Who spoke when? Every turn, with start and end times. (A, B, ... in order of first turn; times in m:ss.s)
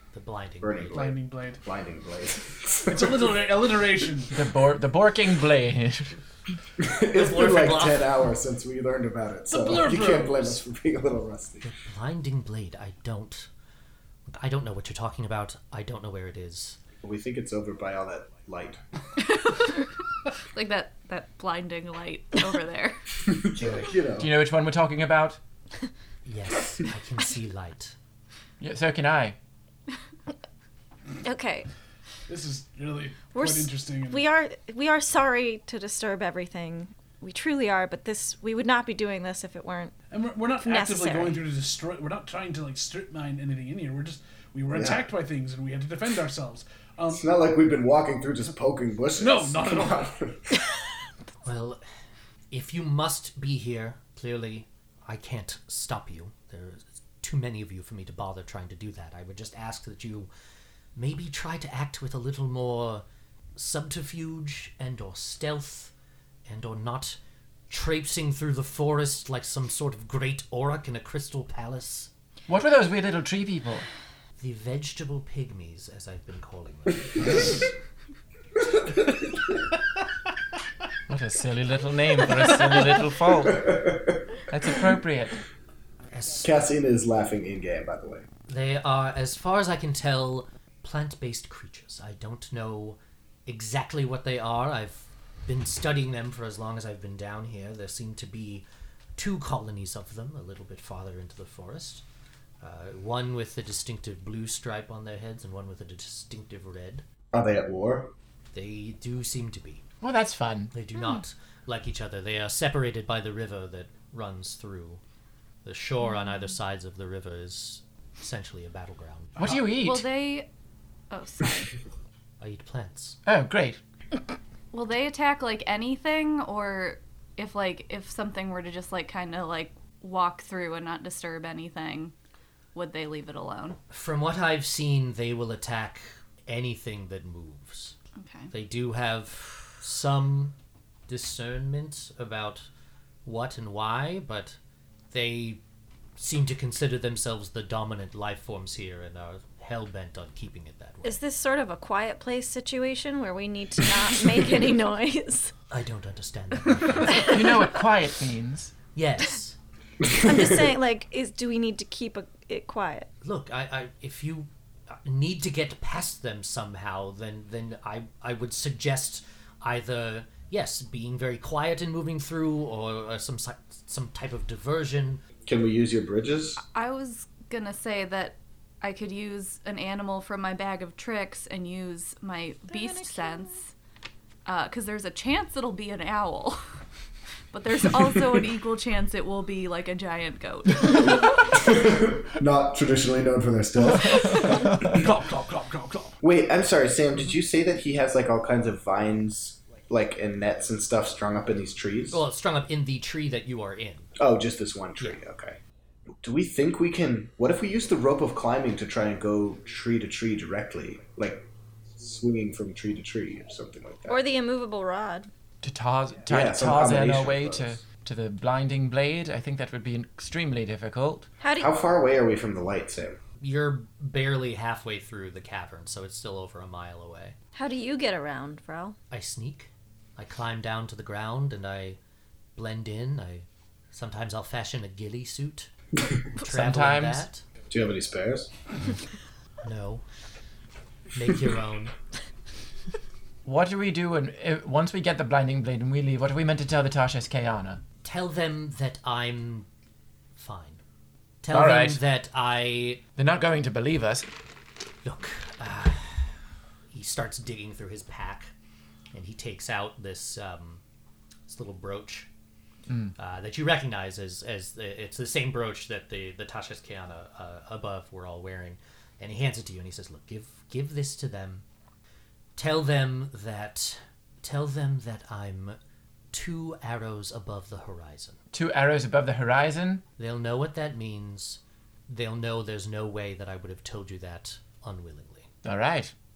0:00.1-0:01.0 A
0:00.6-0:03.5 B
0:00.9-0:01.6 C
0:02.9-0:04.4 C
0:04.3-0:06.2 D
0:06.8-0:11.7 B
0:07.1-0:08.2 A
0:09.5-0:10.6 C
0:11.6-0:13.5 A
0:14.4-0:16.8 A
0:17.0-0:18.8 B
0:19.2-0:19.9 E
0:20.5-0:23.0 E
0:23.3-0:24.3 B
0:23.6-0:25.4 D
0:26.2-0:28.0 A
0:28.6-0:29.4 D
0:31.2-0:31.7 F
0:32.3-0:34.3 C
0:33.3-0:40.0 F
0:40.1-0:47.3 C
0:40.6-0:41.4 F
0:44.7-0:45.1 B
0:47.1-0:50.5 B
0:49.2-0:50.1 C
0:51.4-0:51.8 A
0:52.5-1:00.3 A
1:01.0-1:03.0 A
1:03.6-1:05.9 A
1:06.5-1:07.2 A
1:07.7-1:12.1 A
1:12.5-1:13.9 D
1:14.4-1:17.5 A
1:21.1-1:23.8 D
1:23.4-1:24.2 B
1:24.5-1:25.4 D
1:26.1-1:26.5 A
1:26.4-1:28.3 B
1:28.5-1:38.6 A
1:39.2-1:42.0 A
1:42.6-1:47.0 A
1:47.3-1:48.1 B
1:48.5-1:49.8 A
1:50.0-1:50.7 D
1:50.7-1:55.0 A
1:55.6-1:59.6 A
1:59.4-2:00.1 D
1:59.7-2:00.5 E
2:01.1-2:01.7 E
2:02.4-2:03.2 A
2:03.3-2:03.8 D
2:04.7-2:12.1 E
2:12.7-2:13.8 E
2:13.9-2:18.0 A
2:18.2-2:18.5 E
2:18.5-2:20.5 A
2:21.1-2:22.7 A
2:23.2-2:24.6 A
2:25.1-2:25.6 A
2:26.2-2:31.2 A
2:31.0-2:35.5 F
2:35.7-2:37.4 A
2:37.1-2:38.7 D
2:37.1-2:37.6 F
2:39.0-2:39.6 A
2:40.0-2:40.7 B
2:40.2-2:43.1 F
2:43.2-2:55.2 A
2:55.5-2:56.6 B
2:56.6-3:03.7 E
3:02.7-3:03.6 F
3:04.4-3:06.6 E
3:07.5-3:11.4 E
3:11.3-3:15.1 B
3:14.7-3:16.2 C
3:16.2-3:22.2 B
3:22.1-3:24.1 A
3:24.2-3:25.6 B
3:26.2-3:34.2 B
3:34.1-3:35.3 F
3:35.6-3:41.3 D
3:36.3-3:37.8 B
3:41.4-3:41.7 F
3:41.6-3:43.2 B
3:43.4-3:47.4 A
3:47.5-3:49.0 F
3:49.1-3:52.0 A
3:52.6-3:55.7 A
3:56.4-3:57.4 A
3:56.4-3:57.3 D
3:57.7-3:58.5 B
3:59.6-4:00.0 A
4:01.1-4:02.0 A
4:03.4-4:07.8 D
4:08.0-4:09.7 A
4:10.4-4:10.8 A
4:11.4-4:13.0 A
4:11.5-4:12.0 D
4:13.2-4:14.3 D
4:15.0-4:16.4 A
4:16.9-4:18.5 A
4:19.1-4:20.8 A
4:21.5-4:22.3 A
4:22.9-4:23.1 D
4:23.2-4:31.6 A
4:32.6-4:35.8 A
4:36.3-4:38.4 A
4:38.5-4:40.0 D
4:40.2-4:45.5 A
4:45.6-4:46.1 D